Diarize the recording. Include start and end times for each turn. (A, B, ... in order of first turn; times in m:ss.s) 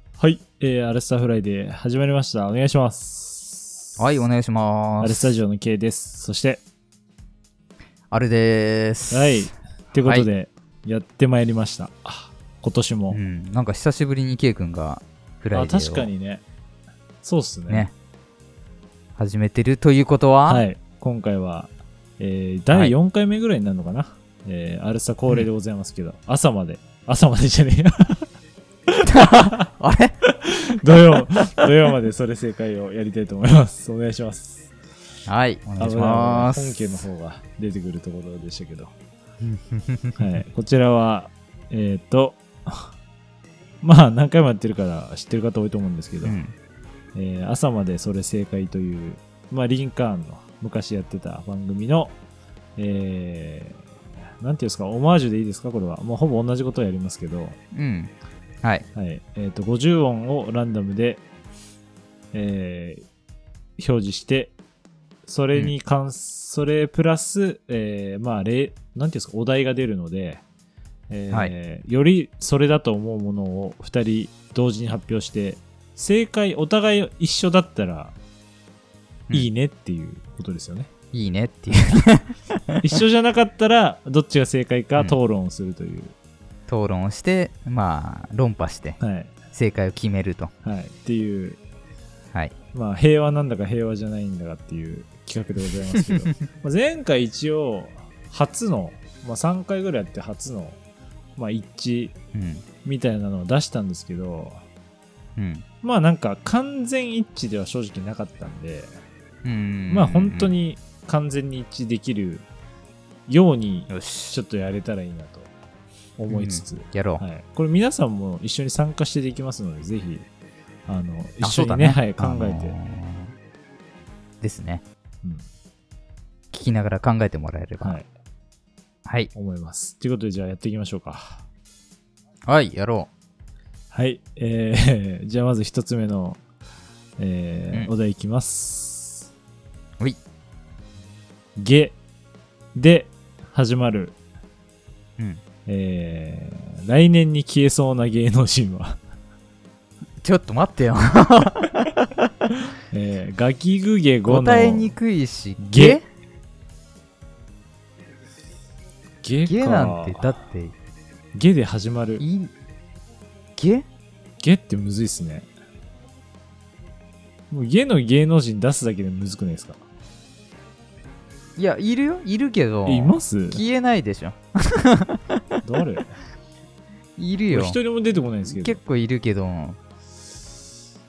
0:00.2-0:04.0 A
0:04.0-0:05.4 B
0:05.0-0:06.6 A
0:08.1-0:10.3 B
0:09.1-0:13.2 A
0:13.1-0:16.1 B
0:15.5-0:16.4 A
0:17.2-0:17.9 A
0:19.2-0:20.6 B
0:20.5-0:28.3 A
0:29.0-0:30.2 B
0:30.3-0:34.7 A
0:35.3-0:36.9 B
0:35.8-0:38.9 A
0:39.4-0:40.2 B
0:40.2-0:42.9 A
0:43.8-0:46.4 A
0:46.2-0:46.6 B
0:47.2-0:52.2 A
0:52.8-0:53.9 A
0:54.4-0:57.6 A
0:57.7-0:58.9 B
0:59.0-1:01.2 A
1:02.3-1:03.0 A
1:03.8-1:04.6 A
1:05.2-1:10.4 A
1:11.1-1:18.2 A
1:19.3-1:20.9 A
1:21.1-1:23.0 B
1:22.8-1:26.1 A
1:26.7-1:29.0 B
1:29.0-1:29.3 A
1:29.5-1:30.5 B
1:30.6-1:31.6 A
1:32.7-1:40.8 A
1:35.9-1:36.5 B
1:41.4-1:42.2 A
1:42.3-1:42.7 B
1:42.8-1:44.6 A
1:45.4-1:45.6 B
1:45.8-1:49.0 A
1:49.4-1:50.5 B
1:49.9-1:52.5 A
1:53.3-1:55.5 A
1:53.9-1:54.4 B
1:56.2-2:00.3 A
1:56.3-1:57.2 B
2:00.9-2:02.8 A
2:01.4-2:03.3 B
2:04.4-2:04.8 B
2:06.5-2:08.0 B
2:07.8-2:08.1 A
2:09.1-2:09.3 B
2:09.4-2:11.4 A
2:12.5-2:13.1 B
2:13.9-2:16.4 A
2:17.2-2:19.3 A
2:21.6-2:22.0 A
2:22.8-2:24.2 A
2:25.7-2:29.0 A
2:30.2-2:32.1 B
2:32.9-2:35.0 A
2:34.3-2:36.0 B
2:35.6-2:36.0 A
2:39.2-2:40.3 A
2:39.5-2:40.8 B
2:41.3-2:42.2 A
2:42.2-2:42.5 B
2:43.6-2:43.9 B
2:44.4-2:45.5 A
2:47.5-2:49.8 A
2:51.6-2:55.6 B
2:52.9-2:53.6 A
2:55.6-2:56.1 A
2:57.2-2:57.8 B
2:57.5-2:58.8 A
2:58.4-2:59.8 B